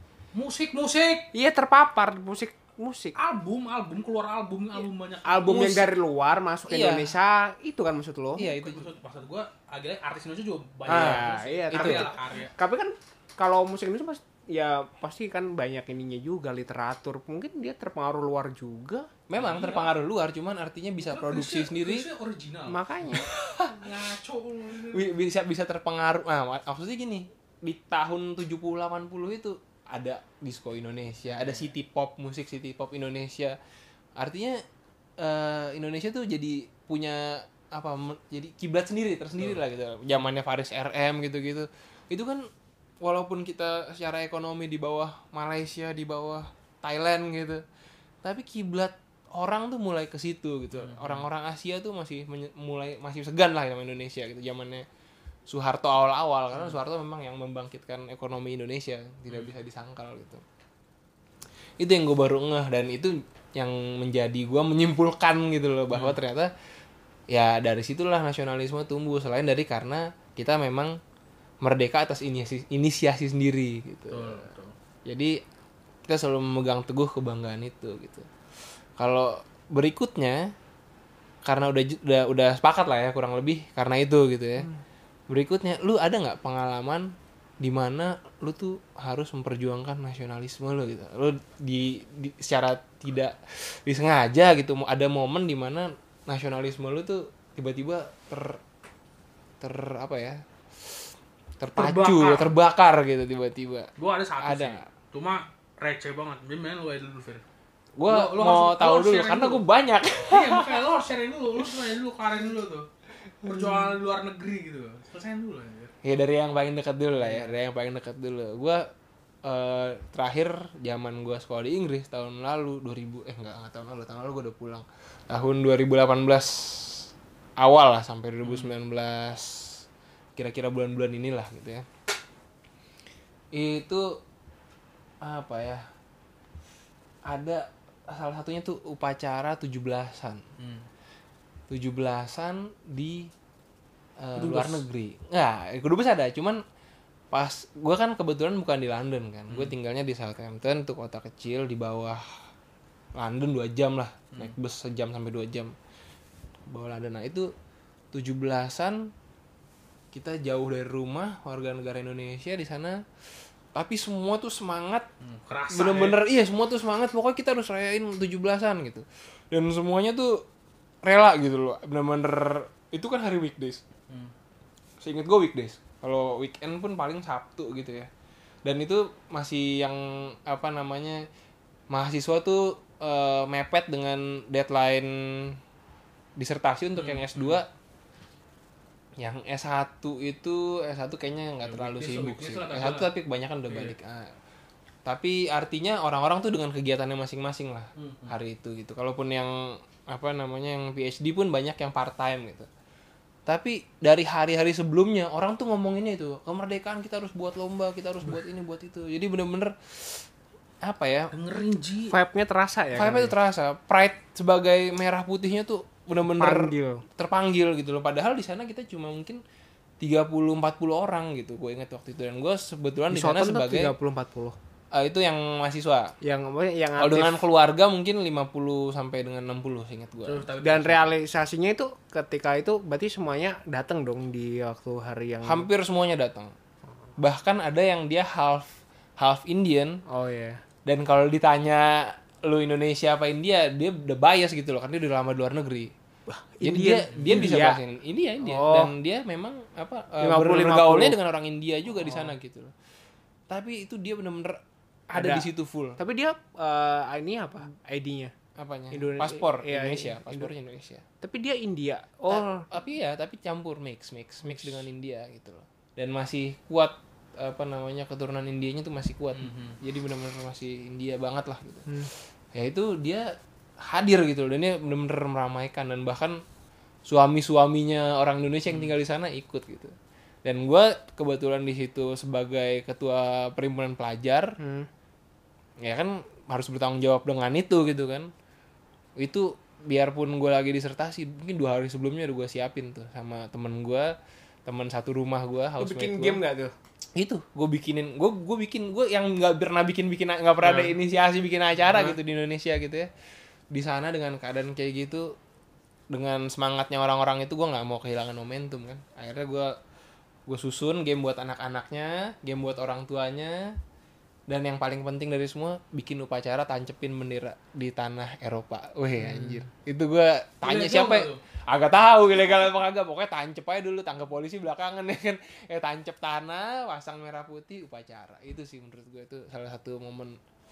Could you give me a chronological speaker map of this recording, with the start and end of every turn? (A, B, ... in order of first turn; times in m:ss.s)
0:00.3-0:01.3 A
0:01.3-0:03.1 B
0:03.2-0:05.9 A
0:05.2-0:08.5 B
0:05.5-0:05.8 C
0:06.7-0:07.1 C
0:08.4-0:08.9 C
0:08.4-0:12.5 A
0:10.9-0:12.1 C
0:10.9-0:19.1 B
0:19.3-0:22.1 C
0:19.4-0:19.9 A
0:21.0-0:22.8 A
0:22.7-0:23.3 B
0:23.1-0:23.9 C
0:23.6-0:25.1 A
0:24.9-0:33.6 C
0:31.3-0:31.7 A
0:34.2-0:34.6 C
0:35.2-0:42.5 C
0:43.0-0:47.6 C
0:48.2-0:54.8 C
0:50.8-0:51.3 A
0:55.5-1:00.4 C
1:01.8-1:06.5 C
1:05.9-1:06.2 A
1:07.3-1:11.0 C
1:11.6-1:14.4 C
1:14.1-1:14.7 A
1:15.0-1:15.4 C
1:16.1-1:18.3 C
1:19.0-1:20.5 C
1:21.4-1:24.7 C
1:25.3-1:38.6 C
1:39.6-1:40.4 C
1:41.6-1:44.9 C
1:41.7-1:42.5 A
1:44.0-1:47.4 A
1:48.0-1:50.9 C
1:48.0-1:49.6 A
1:50.2-1:52.9 A
1:53.4-1:55.9 A
1:56.0-1:58.8 C
1:57.2-1:57.6 A
1:59.4-2:09.8 C
2:08.4-2:08.7 A
2:10.4-2:11.8 C
2:13.5-2:14.2 C
2:15.2-2:15.8 C
2:17.2-2:20.4 C
2:20.6-2:20.9 A
2:21.7-2:23.3 C
2:24.2-2:26.6 C
2:24.4-2:24.8 A
2:27.3-2:32.2 C
2:29.5-2:29.7 A
2:33.2-2:35.7 C
2:36.7-2:37.5 C
2:38.1-2:39.1 C
2:40.1-2:43.0 C
2:43.7-2:45.1 C
2:45.2-2:46.2 A
2:45.7-2:50.4 C
2:51.0-2:53.8 C
2:55.0-2:58.1 C
2:58.6-3:01.3 C
3:01.9-3:05.6 C
3:06.4-3:07.7 C
3:07.0-3:07.6 A
3:09.2-3:14.3 C
3:11.6-3:13.1 A
3:13.7-3:13.9 A
3:15.0-3:22.7 C
3:18.0-3:18.3 A
3:23.4-3:30.2 C
3:30.8-3:31.3 C
3:31.3-3:32.1 A
3:32.1-3:33.3 B
3:32.9-3:39.4 C
3:36.2-3:37.0 B
3:40.0-3:43.9 C
3:43.1-3:44.6 B
3:44.9-3:46.1 C
3:46.2-3:47.4 B
3:47.0-3:50.5 C
3:50.2-3:51.1 A
3:50.6-3:55.7 B
3:55.4-3:56.5 C
3:57.2-4:00.0 C
4:00.1-4:00.6 B
4:00.8-4:05.9 C
4:06.3-4:07.8 B
4:06.6-4:12.7 C
4:07.1-4:07.6 A
4:08.4-4:08.9 B
4:10.2-4:11.2 B
4:13.5-4:16.0 C
4:15.1-4:18.3 B
4:18.6-4:21.0 C
4:18.9-4:20.5 B
4:21.2-4:22.7 B
4:22.3-4:31.9 C
4:24.5-4:24.8 B
4:29.4-4:29.8 A
4:32.5-4:36.4 C
4:37.0-4:44.6 C
4:44.6-4:44.9 B
4:45.8-4:48.3 C
4:49.2-4:54.1 C
4:54.6-4:56.4 C
4:55.8-4:56.7 B
4:57.1-5:03.1 C
5:03.7-5:05.4 C
5:06.1-5:09.8 C
5:10.5-5:13.8 C
5:14.5-5:30.4 C
5:20.6-5:21.4 A